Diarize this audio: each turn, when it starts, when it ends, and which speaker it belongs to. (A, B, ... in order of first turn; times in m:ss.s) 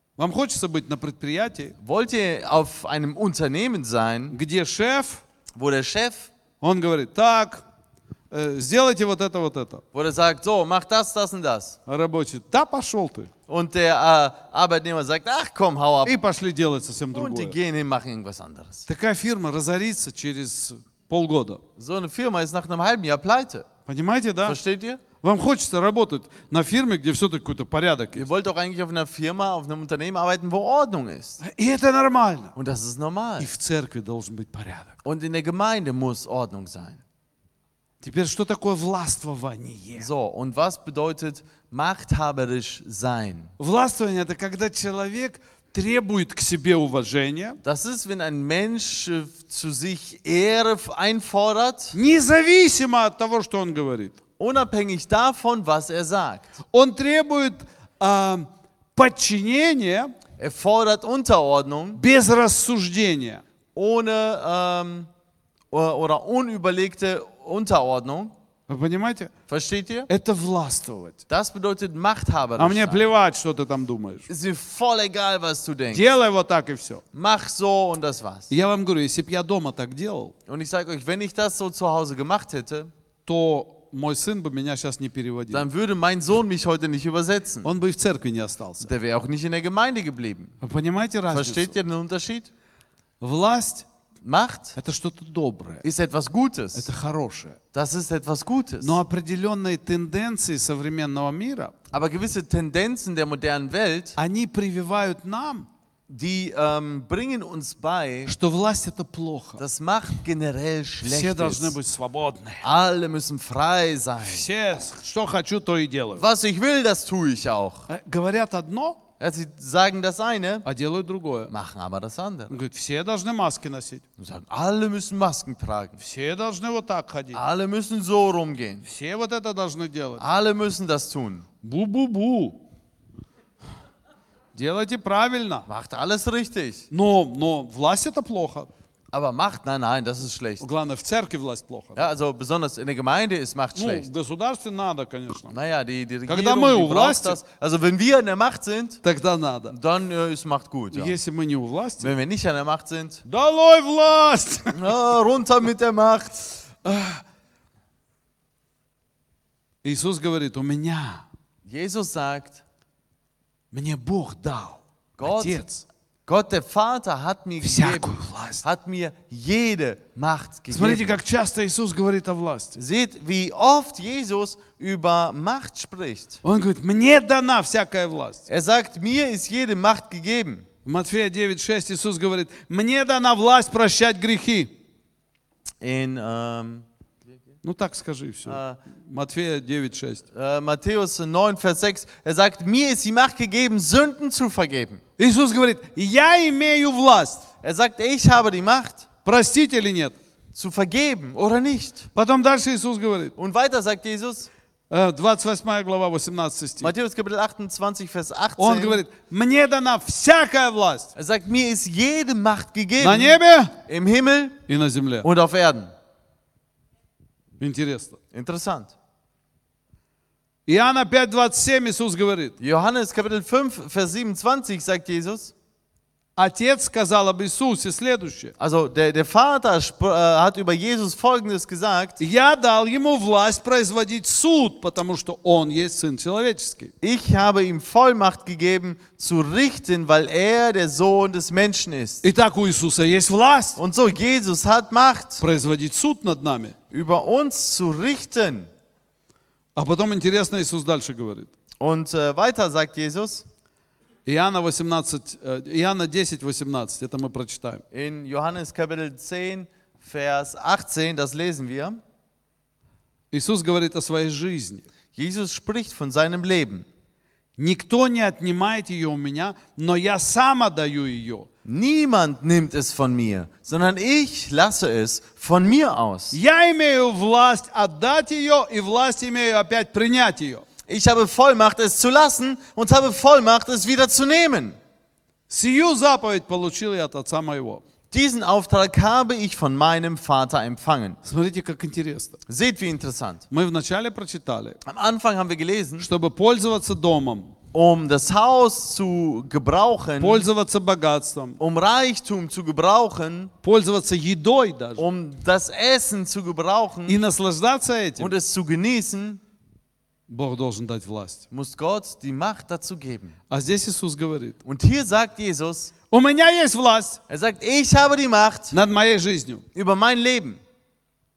0:00.2-0:01.7 A
0:01.8-0:04.4 B
0:04.3-0:05.2 A
0:05.5-0:06.3 B
0:06.6-0:07.6 A
0:08.3-0:09.8 A
0:09.9-0:11.8 B
0:11.9-0:13.3 A
0:13.5-0:16.2 B
0:16.0-0:17.6 A
0:17.1-0:18.9 B
0:18.9-0:21.6 A
0:21.8-0:23.7 B
0:23.8-0:24.6 A
0:24.4-0:25.0 B
0:25.2-0:28.3 A
0:28.2-0:31.4 B
0:31.4-0:32.5 A
0:32.5-0:33.5 B
0:33.4-0:34.9 A
0:35.0-0:37.0 B
0:38.0-0:40.1 A
0:40.0-0:43.5 B
0:43.6-0:47.6 A
0:47.6-0:51.9 B
0:51.9-0:54.2 A
0:54.4-0:56.5 B
0:56.7-1:00.1 A
1:00.4-1:02.0 B
1:02.0-1:03.4 A
1:03.7-1:05.1 B
1:05.7-1:08.3 B
1:08.7-1:09.3 A
1:09.5-1:10.1 B
1:10.1-1:11.2 A
1:11.3-1:13.0 B
1:12.6-1:14.3 A
1:14.3-1:16.1 B
1:15.9-1:17.0 A
1:17.1-1:18.5 B
1:18.5-1:20.3 A
1:20.5-1:22.9 B
1:23.2-1:25.6 A
1:25.5-1:27.7 B
1:27.6-1:28.9 A
1:28.8-1:30.5 B
1:30.6-1:31.7 A
1:31.3-1:32.5 B
1:33.2-1:33.8 A
1:34.2-1:34.8 B
1:34.8-1:35.8 A
1:35.8-1:36.9 B
1:36.7-1:37.6 A
1:37.7-1:39.0 B
1:38.8-1:41.7 A
1:41.9-1:44.2 B
1:44.2-1:45.7 A
1:46.1-1:48.3 B
1:48.2-1:49.6 A
1:49.6-1:51.8 B
1:51.0-1:52.6 A
1:52.6-1:54.5 B
1:54.2-1:56.2 A
1:56.2-1:57.9 B
1:57.9-1:59.0 A
1:59.2-2:00.6 B
2:00.6-2:01.5 A
2:01.5-2:02.5 B
2:02.5-2:04.0 A
2:04.2-2:06.0 B
2:06.0-2:07.4 A
2:07.3-2:08.8 B
2:08.8-2:10.2 A
2:10.2-2:11.5 B
2:11.6-2:12.6 A
2:14.5-2:15.7 A
2:15.7-2:16.9 B
2:16.9-2:18.7 A
2:19.1-2:20.6 B
2:20.6-2:22.1 A
2:22.0-2:24.1 B
2:23.7-2:25.6 A
2:25.5-2:29.0 B
2:26.3-2:27.4 A
2:29.0-2:29.7 A
2:29.7-2:31.1 B
2:30.9-2:32.1 A
2:32.0-2:33.2 B
2:33.2-2:34.9 A
2:34.7-2:36.5 B
2:36.8-2:37.2 A
2:39.8-2:41.2 A
2:41.6-2:42.6 B
2:43.7-2:45.8 A
2:45.2-2:45.6 B
2:46.2-2:51.2 B
2:47.6-2:48.6 A
2:50.7-2:52.8 A
2:52.7-2:56.4 B
2:56.4-2:58.5 A
2:58.5-3:00.6 B
3:00.8-3:04.7 A
3:05.8-3:06.8 B
3:07.6-3:10.2 A
3:08.4-3:08.8 B
3:10.3-3:15.0 B
3:15.2-3:17.5 A
3:17.6-3:19.0 B
3:19.2-3:20.2 A
3:20.5-3:22.1 B
3:22.1-3:23.3 A
3:23.4-3:24.5 B
3:24.9-3:26.9 A
3:26.8-3:29.0 B
3:28.6-3:31.1 A
3:31.1-3:34.6 B
3:33.0-3:33.7 A
3:34.7-3:35.3 A
3:35.2-3:35.9 B
3:37.6-3:38.2 A
3:38.3-3:38.9 B
3:40.7-3:42.5 A
3:42.6-3:45.5 B
3:46.4-3:48.5 A
3:48.6-3:52.2 B
3:52.2-3:56.9 A
3:57.0-4:02.2 B
4:02.2-4:03.8 A
4:03.8-4:05.4 B
4:05.4-4:06.7 A
4:06.9-4:08.7 B
4:09.8-4:11.5 A
4:11.8-4:13.4 B
4:14.2-4:17.8 A
4:17.9-4:22.0 B
4:23.3-4:24.8 A
4:25.1-4:26.8 B
4:27.6-4:31.5 A
4:31.6-4:36.4 B
4:36.3-4:40.6 A
4:40.9-4:44.8 B
4:45.5-4:47.8 A
4:48.1-4:51.2 B
4:51.2-4:52.4 A
4:52.5-4:53.4 B
4:53.5-4:54.8 A
4:54.8-4:56.1 B
4:56.0-4:57.5 A
4:57.7-5:00.5 B
5:00.2-5:01.6 A
5:01.6-5:03.5 B
5:03.6-5:05.0 A
5:05.0-5:07.2 B
5:07.1-5:08.3 A
5:08.2-5:09.4 B
5:10.3-5:11.4 A
5:11.5-5:13.4 B
5:13.5-5:14.6 A
5:14.6-5:15.9 B
5:16.1-5:17.2 A
5:17.3-5:18.7 B
5:18.7-5:19.6 A
5:19.7-5:20.6 B